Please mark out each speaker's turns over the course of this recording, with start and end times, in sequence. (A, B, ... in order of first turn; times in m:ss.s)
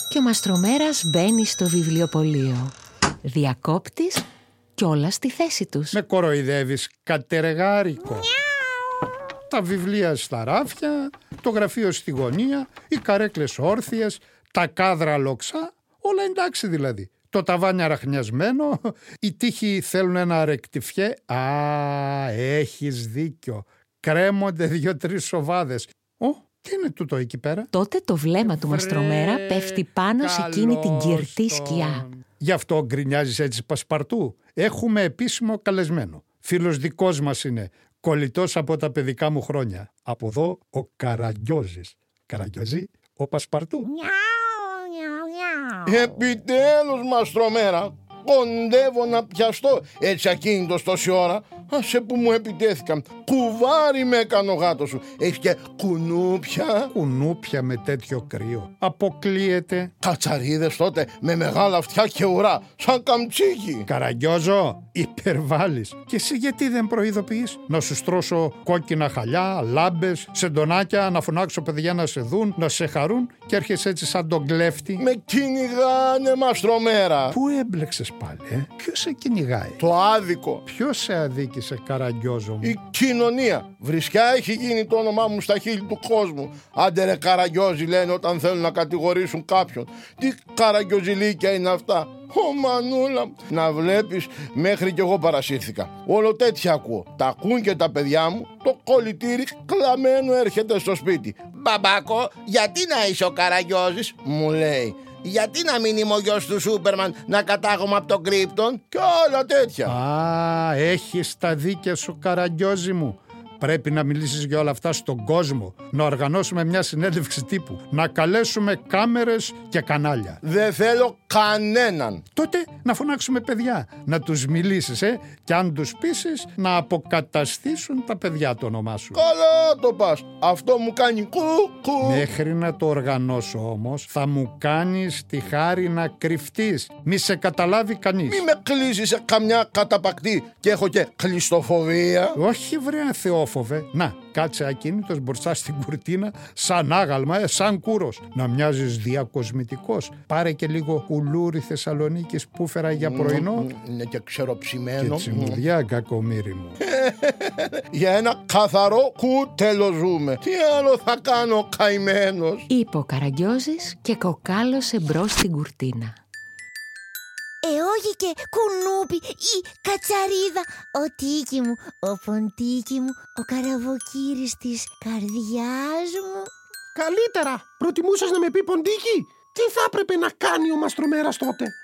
0:00.1-0:04.3 A
0:04.8-0:06.0 A
0:05.9-0:08.3 B
0:09.5-0:27.7 B
0:27.7-0:32.0 A
0:28.6-0:43.9 B
0:43.9-0:46.3 C
0:45.9-0:56.9 D
0:56.9-0:59.9 B
1:00.0-1:03.9 D
1:03.9-1:15.1 B
1:15.0-1:17.4 D
1:17.3-1:19.8 B
1:19.8-1:20.6 D
1:20.7-1:22.8 B
1:22.6-1:50.0 D
1:49.9-2:00.4 B
2:00.4-2:02.2 D
2:02.4-2:09.2 B
2:09.2-2:12.2 D
2:12.0-2:18.4 B
2:18.3-2:22.4 D
2:22.4-2:33.7 B
2:33.0-2:35.6 D
2:35.0-2:36.8 B
2:36.8-2:42.6 D
2:42.7-2:46.2 A
2:47.6-2:56.5 C
2:57.0-3:01.8 E